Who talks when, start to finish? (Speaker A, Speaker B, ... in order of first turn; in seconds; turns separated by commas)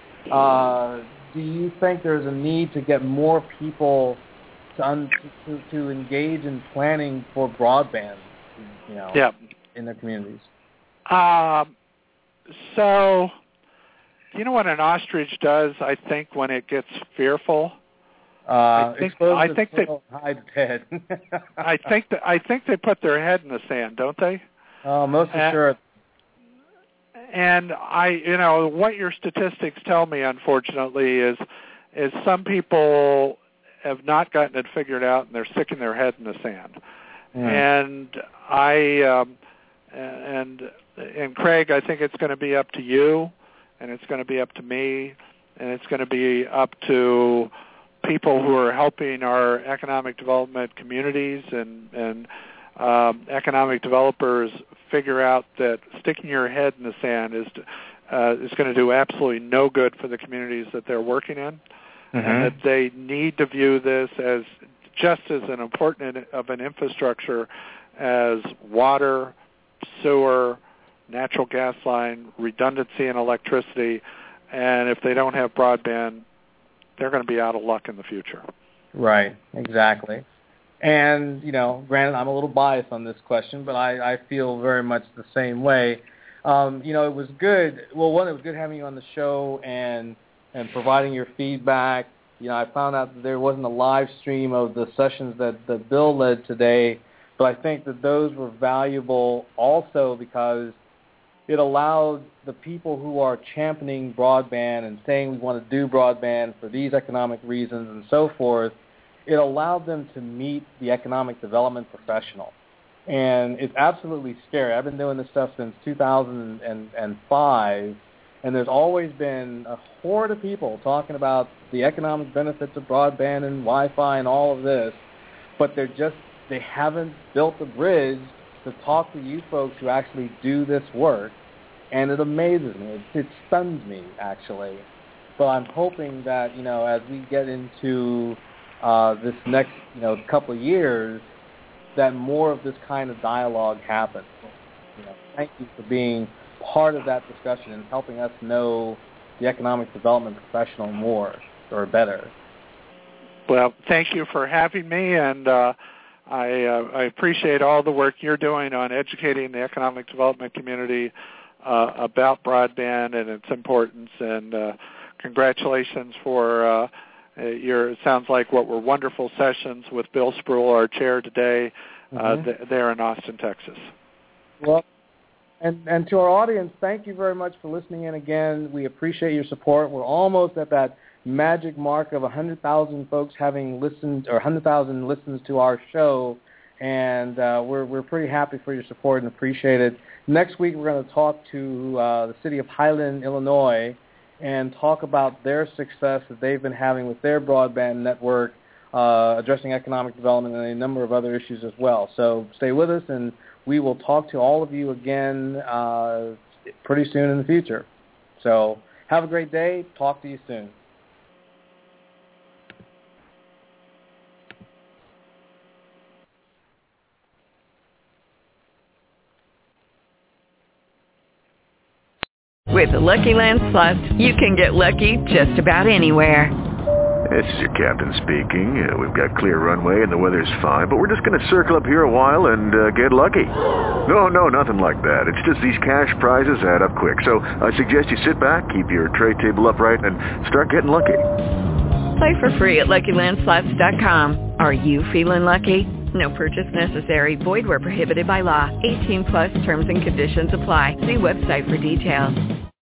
Speaker A: 0.3-4.2, Speaker A: 4.7-8.3, Speaker A: 8.9-9.2, Speaker A: 9.7-10.5, Speaker B: 11.1-11.7, Speaker B: 12.5-13.3, Speaker B: 14.3-17.8, Speaker A: 18.4-21.6, Speaker B: 18.8-19.9, Speaker B: 21.6-24.4, Speaker A: 24.8-25.8, Speaker B: 27.3-31.4, Speaker B: 31.9-36.8, Speaker A: 37.3-37.6, Speaker B: 37.4-39.3, Speaker B: 39.9-47.5, Speaker B: 48.0-61.6, Speaker A: 62.1-62.5, Speaker B: 62.2-69.3, Speaker B: 69.9-76.2, Speaker B: 77.0-78.4, Speaker A: 78.9-80.2, Speaker A: 80.8-100.8, Speaker A: 101.5-112.5, Speaker A: 113.1-125.0, Speaker A: 125.6-131.3, Speaker A: 131.9-134.8, Speaker A: 135.4-141.2, Speaker A: 141.9-152.3, Speaker B: 153.5-155.7, Speaker B: 156.3-161.1, Speaker B: 161.6-173.9, Speaker A: 172.1-172.5, Speaker A: 174.6-174.8, Speaker A: 175.6-210.7, Speaker C: 222.7-226.5, Speaker D: 227.3-241.2, Speaker C: 242.2-252.4